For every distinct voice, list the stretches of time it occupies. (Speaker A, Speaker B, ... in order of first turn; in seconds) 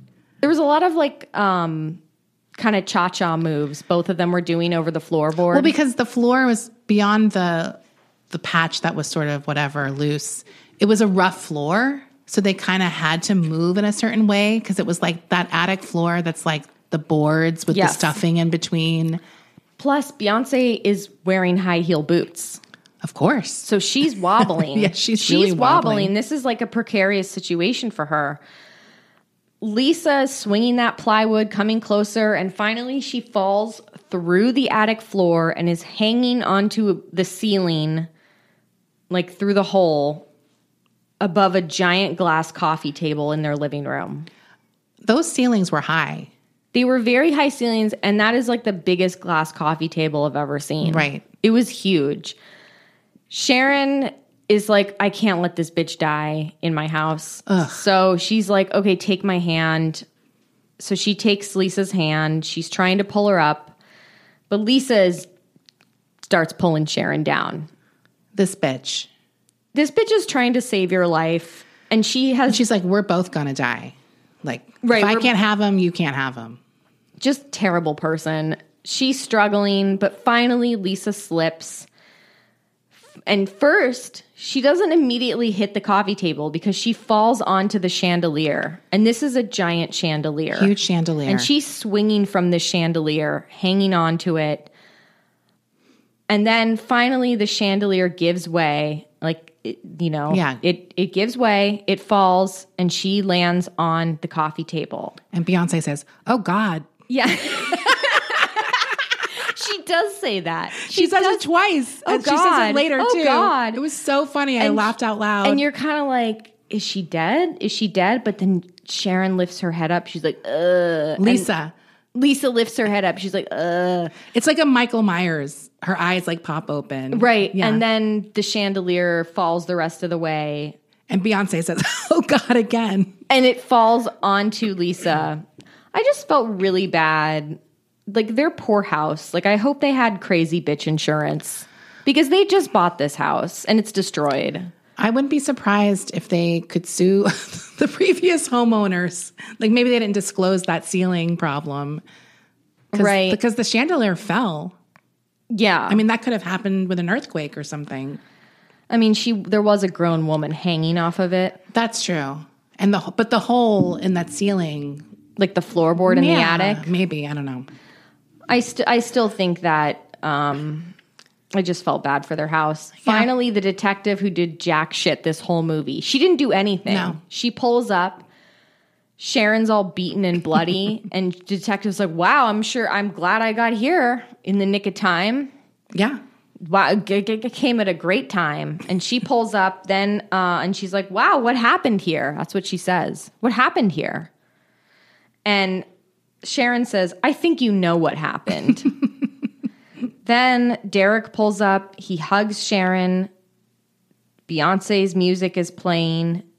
Speaker A: 0.4-2.0, 2.6-5.7, 17.7-18.2, 19.8-22.6, 23.6-28.4, 29.6-38.1, 39.1-40.3, 41.2-44.3, 46.7-52.4, 53.3-60.0, 60.8-63.8, 64.5-65.3, 66.3-67.7, 69.7-72.6, 74.8-75.3, 77.2-81.9, 83.3-90.7, 91.3-94.7, 96.3-105.2, 107.1-111.4, 112.0-113.8, 114.6-121.5, 122.2-124.2, 127.1-130.8, 133.3-144.7, 152.9-153.4, 155.5-156.0, 158.9-161.6, 165.4-166.9, 168.5-170.9, 171.5-178.2, 179.2-185.5, 186.6-194.3, 195.4-195.9, 196.4-198.9, 200.2-203.3, 204.5-206.4
Speaker B: 5.5-7.8, 8.3-19.2, 23.0-23.7, 24.4-26.1, 45.0-46.3, 50.8-51.2, 57.5-57.8, 68.3-69.1, 72.5-76.6, 90.5-91.5, 100.3-100.6, 105.3-106.9, 110.9-115.6, 121.2-121.7, 124.3-127.8, 131.1-133.1, 145.0-152.0, 152.9-154.8, 155.9-158.2, 161.7-165.0, 166.1-167.7, 173.0-173.3, 176.9-177.2, 185.9-186.2